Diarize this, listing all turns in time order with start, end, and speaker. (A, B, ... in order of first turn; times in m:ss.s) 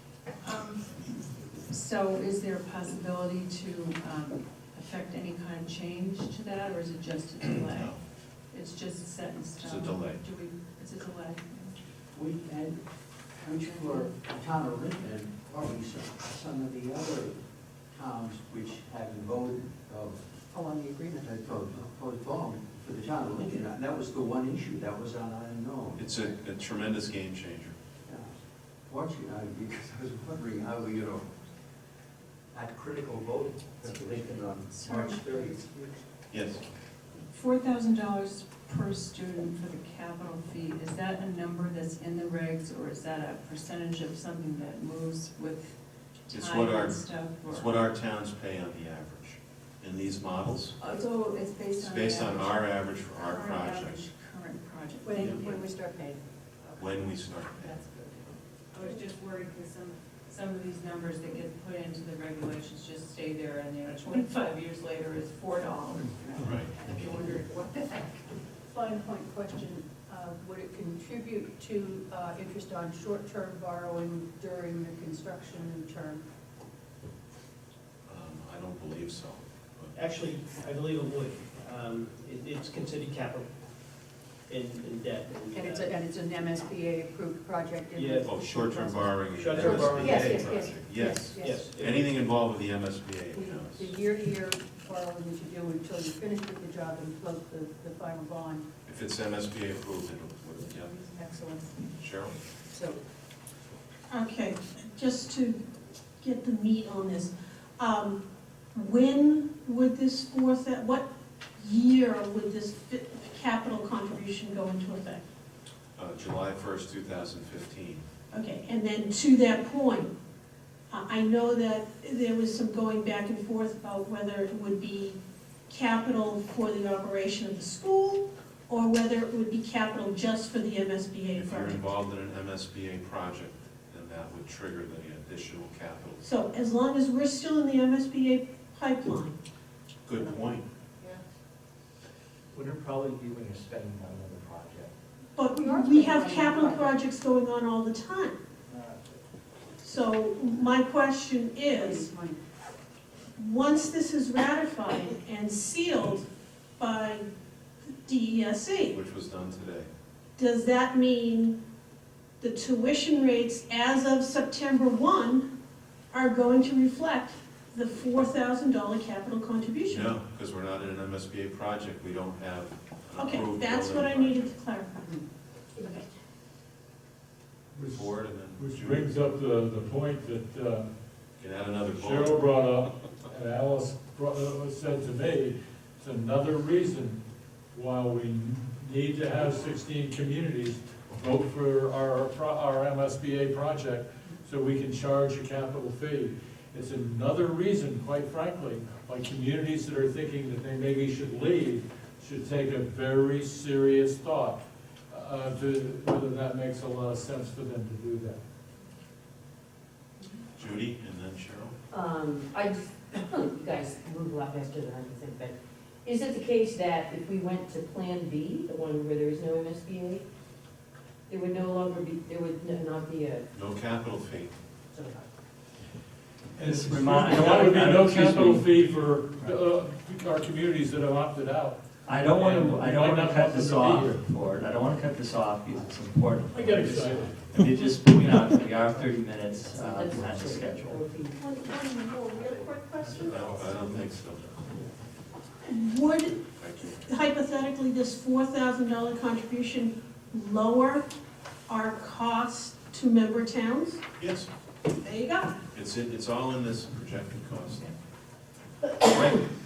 0:00.4-0:11.8 A
0:07.5-0:08.0 B
0:09.6-0:10.2 B
0:12.1-0:12.8 C
0:13.4-0:17.4 C
0:13.6-0:14.1 A
0:17.9-0:20.2 C
0:20.5-0:21.4 D
0:21.2-0:26.2 C
0:26.0-0:27.8 B
0:28.0-0:28.3 C
0:28.9-0:31.3 C
0:32.5-0:36.0 C
0:34.7-0:35.6 A
0:36.3-0:36.6 B
0:37.3-0:45.8 A
0:46.3-0:50.8 B
0:46.3-0:47.7 A
0:50.8-0:55.6 A
0:51.8-0:54.0 B
0:55.0-0:56.2 D
0:55.2-0:55.4 B
0:56.6-1:08.2 A
0:56.8-0:57.8 B
1:06.4-1:06.7 B
1:08.7-1:16.2 D
1:18.0-1:19.9 B
1:19.9-1:23.5 E
1:24.5-1:25.9 E
1:25.5-1:31.5 D
1:28.0-1:28.2 E
1:28.2-1:33.9 B
1:29.3-1:30.8 E
1:30.0-1:30.3 A
1:31.4-1:32.2 E
1:33.3-1:38.7 D
1:38.8-1:40.9 B
1:40.7-1:41.8 D
1:42.0-1:42.4 B
1:42.7-1:43.0 D
1:44.1-1:45.6 F
1:46.2-1:55.2 F
1:56.0-1:58.0 B
1:58.3-2:00.1 F
2:00.9-2:11.8 F
2:11.3-2:16.2 B
2:16.2-2:19.4 F
2:20.0-2:20.6 B
2:23.5-2:23.8 C
2:25.3-2:28.4 F
2:25.5-2:27.0 D
2:29.8-2:32.1 F
2:31.6-2:32.4 D
2:33.4-2:36.3 F
2:36.8-2:37.2 F
2:38.0-2:39.0 F
2:38.9-2:39.9 B
2:40.4-2:41.6 F
2:42.4-2:45.5 F
2:46.1-2:50.1 F
2:49.9-2:54.5 B
2:53.2-2:55.2 F
2:55.8-2:56.0 G
2:57.7-3:00.9 H
2:57.9-2:59.1 B
3:01.4-3:02.4 B
3:01.9-3:28.4 H
3:30.6-3:31.7 B
3:31.9-3:40.2 G
3:41.3-3:43.4 G
3:43.5-3:44.5 B
3:44.9-3:45.3 G
3:46.6-3:54.2 H
3:46.6-3:48.7 I
3:52.0-4:01.0 I
3:56.5-3:57.7 H
3:59.6-4:01.4 G
4:01.4-4:03.6 F
4:03.2-4:04.6 B
4:05.6-4:11.1 F
4:06.6-4:07.0 B
4:11.7-4:14.0 F
4:14.2-4:14.5 B
4:15.0-4:15.6 F
4:15.7-4:17.9 B
4:19.0-4:19.4 I